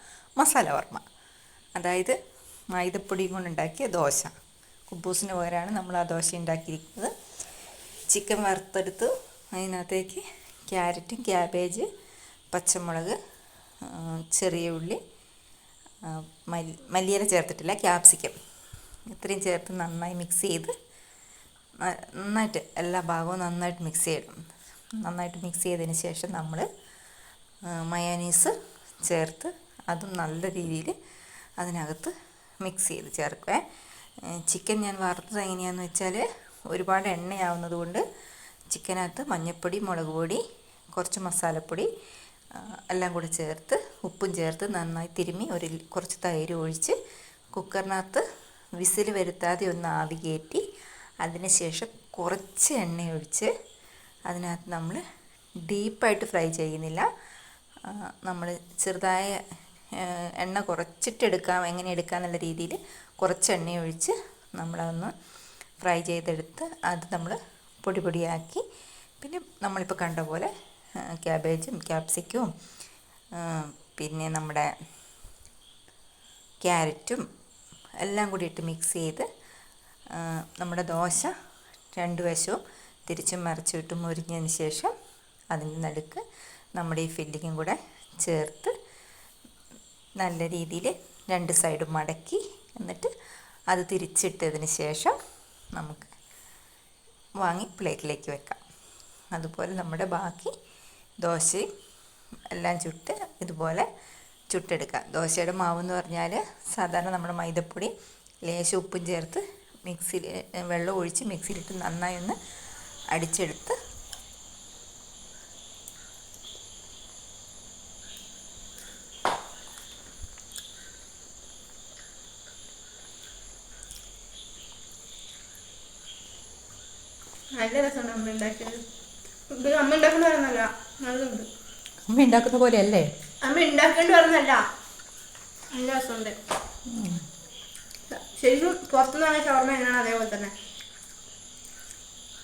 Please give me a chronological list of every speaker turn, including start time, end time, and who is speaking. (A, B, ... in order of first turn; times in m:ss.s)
0:00.4-0:01.0 A
0:01.8-0:02.2 A
0:02.7-0:04.3 A
0:04.9-0:07.1 A
0:08.1-0:11.9 A
0:12.5-0:13.2 A
0:13.8-0:15.0 A
0:16.0-0:18.4 A
0:19.1-0:20.7 A
0:21.8-0:24.4 A
0:25.0-0:26.7 A
0:27.7-0:31.0 A
0:31.6-0:33.6 A
0:34.3-0:38.0 A
0:38.7-0:40.4 A
0:40.9-0:41.9 A
0:42.5-0:47.0 A
0:47.5-0:48.2 A
0:48.8-0:50.6 A
0:51.2-0:53.5 A
0:54.3-0:55.0 A
0:55.7-0:57.1 A
0:57.8-0:59.4 A
1:00.0-1:05.1 A
1:05.8-1:08.6 A
1:09.2-1:10.5 A
1:11.0-1:12.5 A
1:13.4-1:14.7 A
1:16.6-1:17.2 A
1:18.0-1:19.3 A
1:20.1-1:21.3 A
1:22.0-1:24.9 A
1:25.5-1:26.2 A
1:26.8-1:28.7 A
1:30.2-1:33.1 A
1:33.7-1:35.2 A
1:35.7-1:36.1 A
1:37.4-1:38.6 A
1:39.3-1:40.5 A
1:41.2-1:41.6 A
1:42.5-1:43.9 A
1:44.5-1:47.9 A
1:48.5-1:52.4 A
1:53.1-1:53.8 A
2:07.5-2:08.8 B
2:09.5-2:11.5 B
2:12.1-2:13.1 A
2:13.4-2:14.6 B
2:15.7-2:16.4 B
2:16.9-2:17.2 A
2:18.1-2:20.5 B